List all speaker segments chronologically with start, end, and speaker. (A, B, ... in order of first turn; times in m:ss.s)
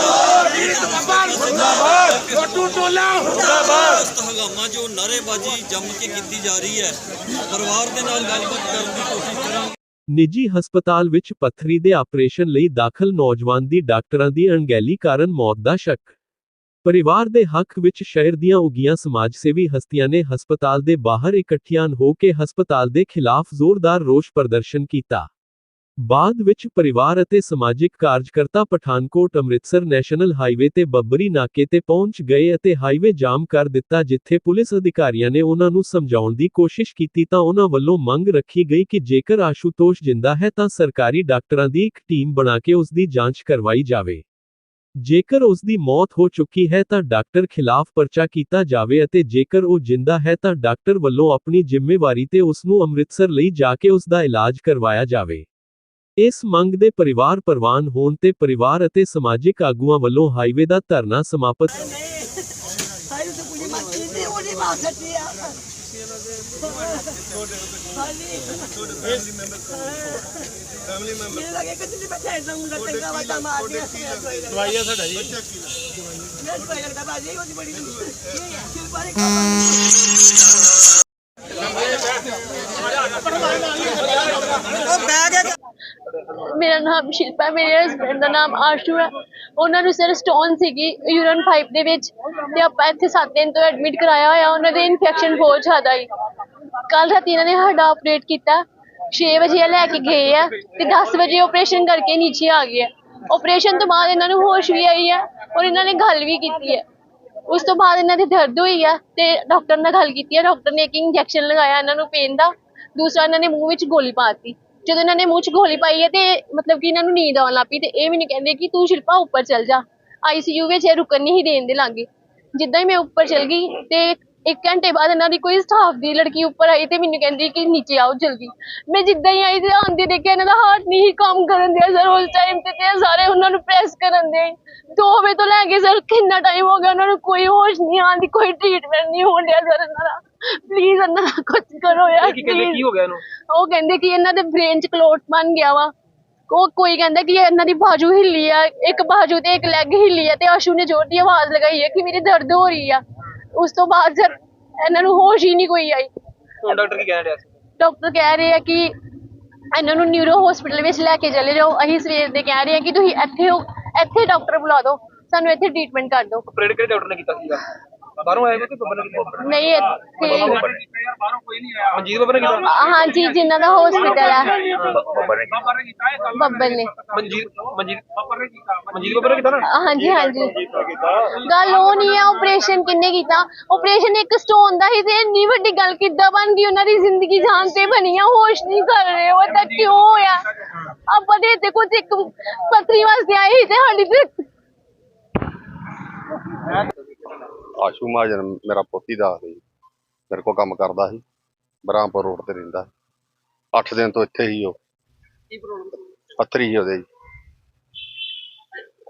0:00.5-0:01.6 A
0:04.7-0:06.9 A
0:07.9-0:08.8 A
0:10.1-0:16.1 B
0:16.8-0:25.3 B
0:26.0-0:44.2 B
0:45.0-0:55.4 B
0:56.2-1:01.9 B
1:26.3-1:36.1 C
1:36.9-1:46.8 C
1:47.5-2:22.9 C
2:22.2-2:23.2 D
2:23.5-2:25.9 C
2:26.5-2:33.0 C
2:33.5-2:36.1 C
2:36.6-2:37.5 D
2:37.8-2:38.9 C
2:39.7-2:46.4 C
2:46.5-2:47.6 D
2:48.2-2:49.5 D
2:49.4-2:50.6 C
2:50.2-2:50.8 D
2:51.9-2:52.8 D
2:52.6-2:54.9 C
2:54.7-2:55.2 D
2:55.1-2:55.6 A
2:56.3-2:56.9 C
2:57.1-2:58.1 D
2:58.9-2:59.7 D
2:59.6-3:00.6 C
3:01.3-3:10.4 C
3:11.1-3:14.4 C
3:17.8-3:19.6 E
3:20.3-3:21.2 E
3:21.8-3:22.9 E
3:23.7-3:24.8 E
3:26.4-3:27.0 E